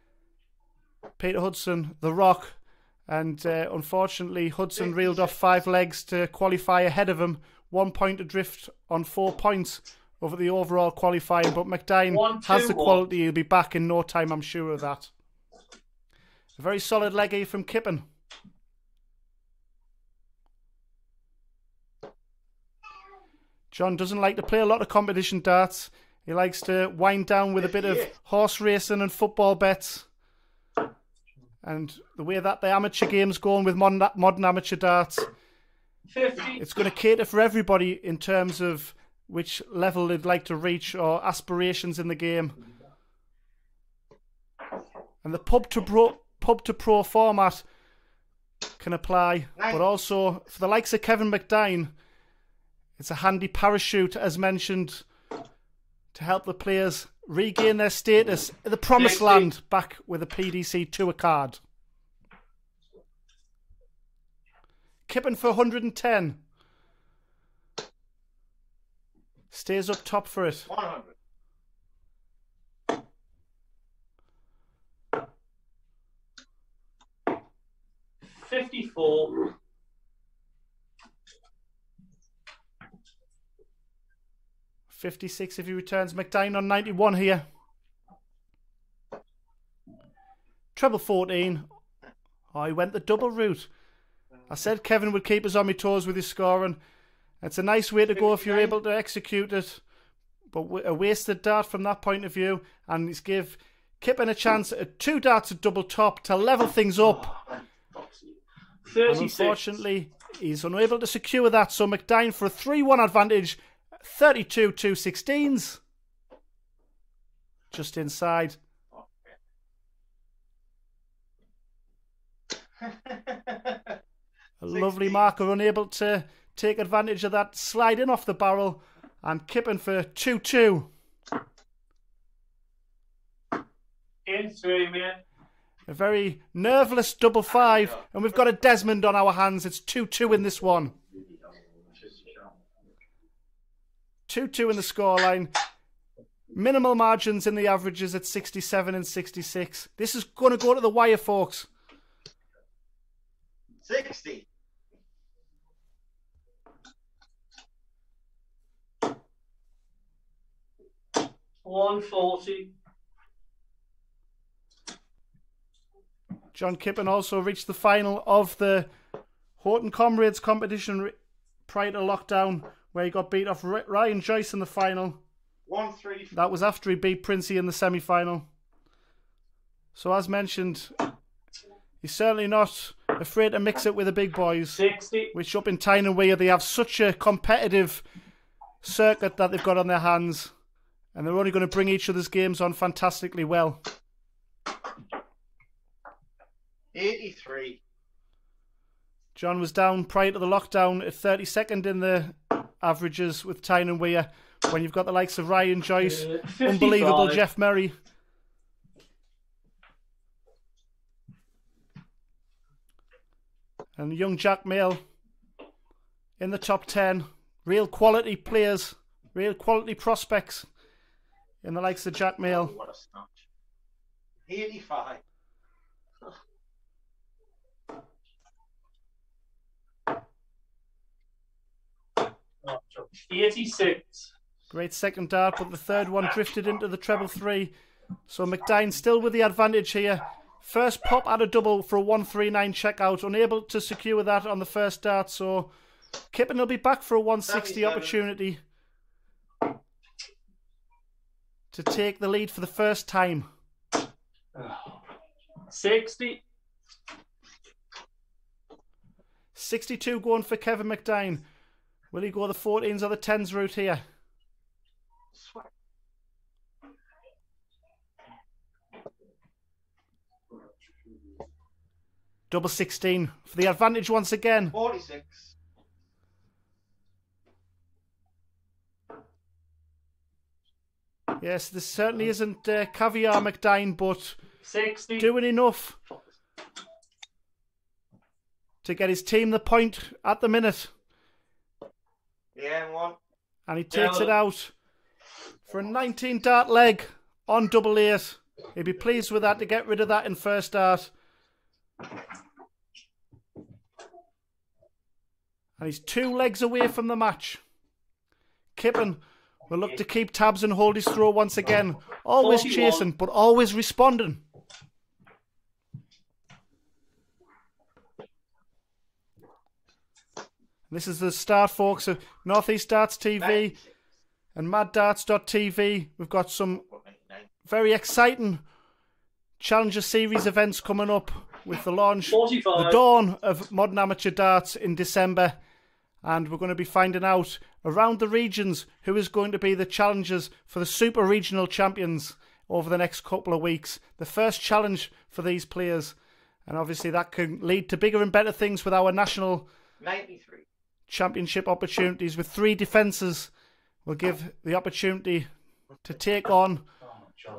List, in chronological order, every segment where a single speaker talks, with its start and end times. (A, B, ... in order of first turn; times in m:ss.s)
0:01.2-0:15.1 A
0:04.8-0:05.3 B
0:12.1-0:13.0 C
0:16.6-0:18.0 A
0:23.7-0:30.1 A
0:27.6-0:28.1 B
0:31.6-0:35.3 A
0:36.1-0:36.6 C
0:36.6-0:42.6 A
0:45.2-0:47.6 A
0:48.8-0:51.9 A
0:49.6-0:49.8 B
0:53.0-0:55.0 A
0:56.1-1:01.6 A
0:58.9-0:59.5 C
1:05.1-1:06.4 A
1:09.5-1:10.7 A
1:10.7-1:11.1 B
1:18.3-1:19.5 C
1:24.9-1:27.4 A
1:30.8-1:31.6 A
1:32.5-1:33.7 A
1:34.5-1:36.8 A
1:37.4-1:39.8 A
1:38.3-1:38.7 B
1:40.5-1:47.4 A
1:48.8-1:49.7 C
1:49.0-1:55.8 A
1:57.7-1:58.6 A
1:58.9-1:59.3 B
2:03.1-2:03.8 B
2:04.6-2:10.9 A
2:04.7-2:05.2 B
2:14.2-2:15.2 C
2:15.9-2:20.9 A
2:24.3-2:25.6 A
2:26.5-2:31.7 A
2:33.8-2:34.4 B
2:41.6-2:42.7 C
2:46.5-2:48.9 A
2:49.6-2:51.2 A
2:51.7-2:55.2 A
2:55.7-2:56.3 B
2:56.3-2:58.5 A
2:59.9-3:00.9 A
3:02.0-3:08.0 A
3:04.7-3:05.3 C
3:08.8-3:10.5 A
3:11.1-3:13.8 A
3:16.9-3:17.8 B
3:19.3-3:27.9 A
3:26.0-3:27.4 C
3:34.0-3:35.0 A
3:36.4-3:40.7 A
3:41.6-3:42.8 A
3:42.4-3:43.4 B
3:44.5-3:45.2 B
3:52.6-3:54.3 C
3:54.7-3:57.7 A
3:58.3-4:05.7 A
4:06.3-4:08.6 A
4:07.4-4:08.2 B
4:11.7-4:13.5 A
4:14.5-4:14.9 C
4:15.7-4:16.4 C
4:19.5-4:21.4 A
4:22.1-4:24.0 A
4:25.3-4:25.7 B
4:32.5-4:34.8 A
4:34.7-4:35.5 B
4:41.4-4:44.4 A
4:44.6-4:45.2 C
4:45.2-4:46.0 A
4:48.8-4:50.9 A
4:52.5-4:53.2 B
4:53.7-4:54.7 A
4:53.9-4:54.3 C
4:55.7-5:01.1 A
5:05.8-5:07.6 A
5:08.8-5:14.4 A
5:12.4-5:13.1 C
5:20.9-5:23.8 A
5:23.4-5:23.9 B
5:24.5-5:26.8 A
5:26.9-5:27.4 B
5:27.6-5:28.6 A
5:29.6-5:35.6 A
5:32.3-5:33.0 C
5:36.2-5:49.7 A
5:50.0-5:50.6 B
5:51.1-5:53.5 A
5:54.0-5:55.5 A
5:56.0-5:56.8 A